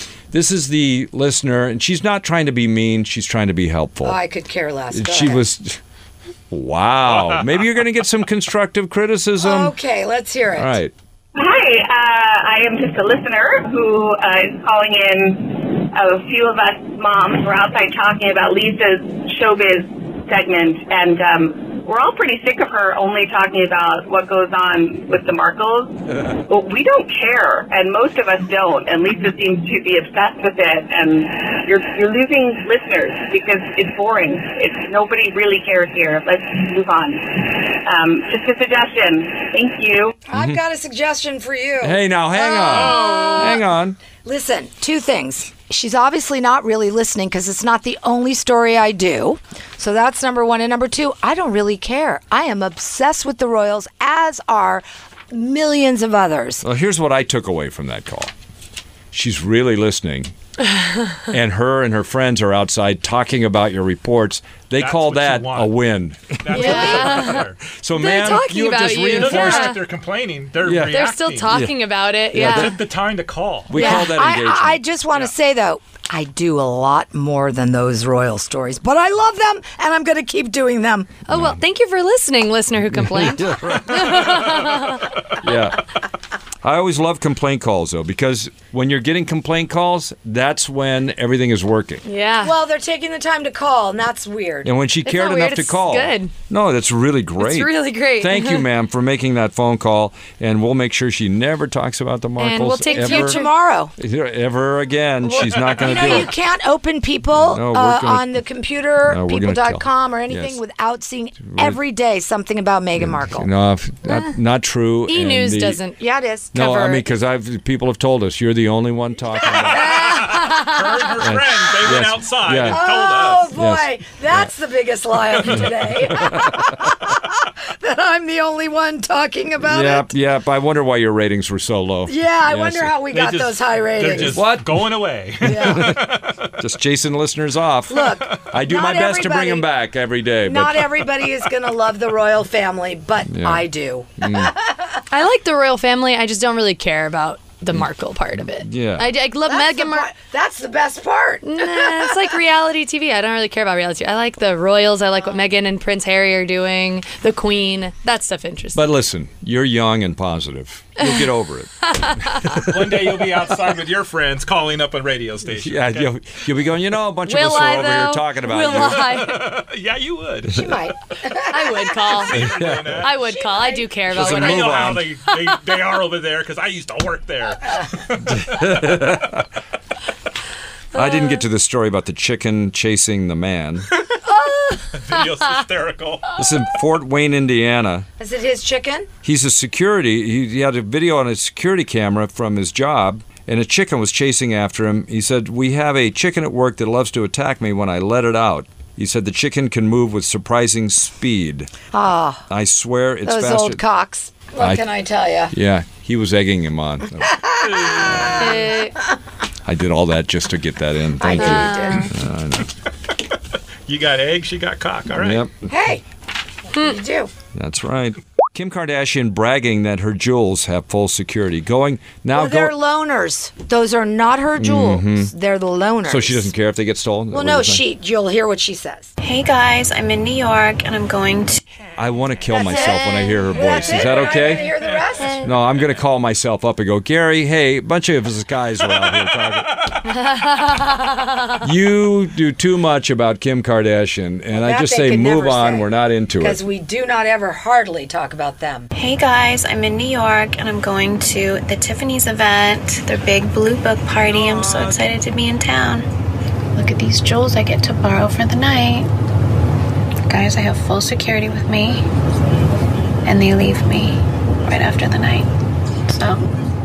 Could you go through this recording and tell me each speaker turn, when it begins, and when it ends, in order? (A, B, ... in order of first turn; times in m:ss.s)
0:00.3-0:04.2 A
0:04.0-0:05.4 B
0:04.9-0:05.8 A
0:06.5-0:09.7 A
0:07.1-0:07.4 C
0:09.4-0:10.8 B
0:10.6-0:10.9 A
0:11.3-0:40.2 D
0:40.3-0:42.0 B
0:40.3-0:40.6 A
0:41.8-0:44.0 A
0:42.7-0:43.6 B
0:44.2-0:56.6 B
0:56.6-0:58.3 A
0:59.1-1:00.3 A
1:01.2-1:09.8 A
1:04.7-1:07.6 C
1:06.5-1:09.8 E
1:09.1-1:11.6 C
1:10.6-1:11.0 A
1:10.9-1:12.7 E
1:12.3-1:12.8 A
1:12.4-1:13.7 C
1:13.7-1:14.8 A
1:13.7-1:21.1 B
1:13.7-1:14.1 E
1:21.3-1:25.0 E
1:21.3-1:21.6 A
1:22.9-1:24.8 A
1:25.3-1:25.8 A
1:26.6-1:32.0 A
1:32.0-1:32.5 E
1:32.4-1:34.7 B
1:34.6-1:43.4 A
1:35.0-1:36.3 E
1:37.4-1:38.6 E
1:42.4-1:43.5 E
1:42.9-1:43.9 B
1:44.0-1:46.3 A
1:45.3-1:53.5 B
1:45.4-1:46.2 C
1:47.3-1:48.3 A
1:49.0-1:50.6 A
1:51.4-1:51.8 A
1:53.0-1:55.8 A
1:55.1-1:56.0 E
1:56.0-1:56.5 B
1:56.5-1:57.0 E
1:56.5-2:00.1 A
1:59.3-2:00.2 B
1:59.7-2:03.5 C
2:01.2-2:02.8 A
2:02.6-2:10.1 B
2:03.5-2:04.5 A
2:06.1-2:06.6 A
2:09.6-2:12.9 A
2:12.1-2:14.5 B
2:13.1-2:16.5 C
2:14.3-2:14.9 A
2:15.4-2:21.0 A
2:15.4-2:16.0 B
2:17.9-2:19.6 B
2:18.1-2:18.4 C
2:20.4-2:25.0 B
2:23.3-2:23.7 A
2:24.2-2:24.5 A
2:25.1-2:30.1 E
2:27.7-2:29.1 A
2:29.5-2:32.0 B
2:31.4-2:38.8 E
2:38.7-2:43.2 A
2:41.9-2:42.6 E
2:42.6-2:46.1 C
2:45.5-2:49.1 A
2:47.2-2:49.5 E
2:48.6-2:50.7 C
2:50.5-2:52.1 B
2:51.4-2:52.4 E
2:52.1-2:53.2 C
2:52.3-2:53.0 A
2:53.0-2:55.2 E
2:53.2-2:54.7 B
2:54.1-2:55.1 A
2:54.1-2:58.4 C
2:58.2-2:59.4 A
3:00.9-3:03.9 A
3:04.2-3:05.2 E
3:04.9-3:06.3 C
3:06.4-3:08.1 A
3:08.2-3:09.1 B
3:09.2-3:21.7 A
3:21.9-3:22.4 B
3:22.5-3:23.8 A
3:23.2-3:25.5 B
3:24.6-3:24.8 A
3:25.5-3:27.4 A
3:27.2-3:28.8 B
3:27.6-3:28.6 C
3:28.4-3:29.0 E
3:29.6-3:32.7 A
3:31.2-3:32.1 B
3:31.3-3:32.1 E
3:33.8-3:35.4 C
3:35.1-3:35.7 A
3:35.7-3:36.0 B
3:36.7-3:37.3 B
3:37.5-3:42.7 A
3:42.3-3:46.5 B
3:44.6-3:45.3 A
3:46.0-3:47.8 A
3:47.3-3:49.1 B
3:49.2-3:51.6 F
3:52.0-3:54.7 A
3:52.5-3:55.4 B
3:55.2-3:55.5 E
3:55.4-3:59.7 A
3:59.3-3:59.9 C
4:00.1-4:01.3 E
4:01.6-4:06.6 A
4:04.5-4:05.9 B
4:06.4-4:08.9 B
4:08.9-4:16.0 F
4:16.8-4:19.1 F
4:20.2-4:22.0 F
4:23.2-4:25.5 F
4:26.1-4:26.4 F